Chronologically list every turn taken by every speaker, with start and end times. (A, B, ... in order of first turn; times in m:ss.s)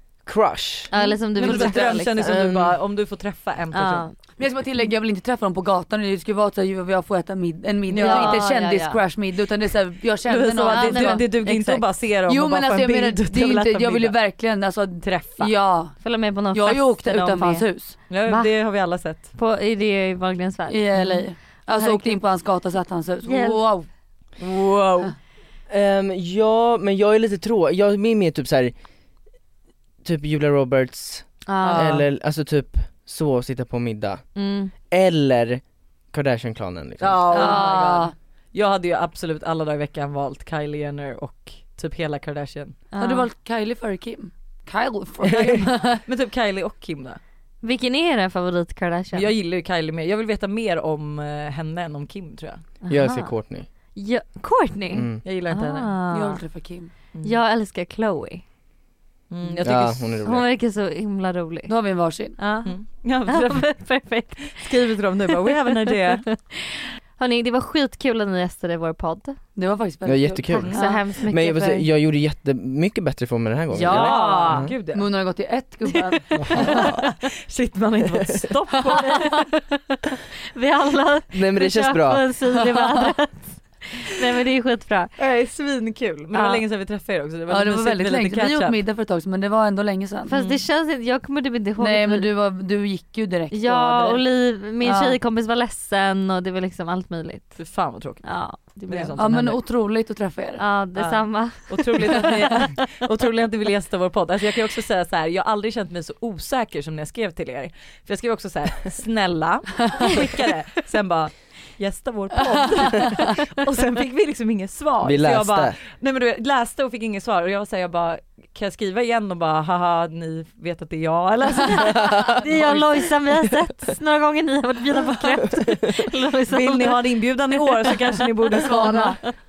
0:00.2-0:00.9 A
0:00.9-0:02.2 B
0:01.0-0:02.0 C
0:01.4-0:04.1 D
0:02.2-0:02.8 A
0:03.7-0:04.2 B
0:04.4-0:11.4 C
0:07.9-0:08.5 D
0:08.0-0:09.0 B
0:10.2-0:14.2 D
0:10.7-0:11.9 B
0:12.3-0:18.0 C
0:15.0-0:15.5 D
0:16.0-0:21.1 B
0:18.1-0:19.3 D
0:20.7-0:23.9 C
0:20.9-0:21.2 D
0:21.8-0:22.2 B
0:23.2-0:23.7 B
0:24.4-0:25.1 D
0:25.7-0:28.7 A
0:30.0-0:34.3 A
0:31.5-0:31.9 B
0:31.6-0:32.0 D
0:34.4-0:34.7 B
0:34.8-0:37.5 A
0:37.0-0:42.8 D
0:37.3-0:38.1 C
0:42.9-0:43.3 B
0:43.0-0:46.0 C
0:45.3-0:47.2 D
0:47.6-0:49.3 B
0:49.1-0:52.6 D
0:52.8-0:53.4 B
0:52.9-0:53.7 A
0:53.9-0:56.4 B
0:54.9-0:55.2 A
0:55.2-0:55.9 D
0:56.1-0:56.9 C
0:57.2-0:58.4 B
0:59.3-1:00.2 D
0:59.6-1:00.4 A
1:00.2-1:01.7 B
1:01.7-1:02.4 C
1:02.4-1:04.7 B
1:02.6-1:03.9 D
1:04.4-1:06.3 D
1:06.1-1:09.4 B
1:09.6-1:11.0 C
1:10.0-1:14.7 A
1:10.5-1:11.9 B
1:13.7-1:14.7 B
1:13.8-1:15.1 D
1:14.9-1:16.7 C
1:15.9-1:16.9 B
1:16.4-1:16.9 A
1:16.6-1:19.4 D
1:19.0-1:25.2 B
1:21.3-1:22.3 A
1:22.6-1:23.1 C
1:25.2-1:28.8 D
1:26.3-1:26.6 B
1:27.5-1:30.3 C
1:30.3-1:32.3 B
1:30.3-1:30.6 D
1:31.8-1:34.2 C
1:33.5-1:37.6 B
1:34.8-1:35.2 C
1:37.6-1:39.6 D
1:38.2-1:39.2 B
1:39.2-1:40.6 C
1:40.6-1:42.3 B
1:41.0-2:02.9 D
1:52.8-1:53.1 C
1:55.0-1:55.8 A
2:01.7-2:07.9 B
2:02.0-2:02.4 A
2:05.4-2:06.0 A
2:06.5-2:09.2 D
2:08.6-2:09.2 C
2:08.8-2:09.3 B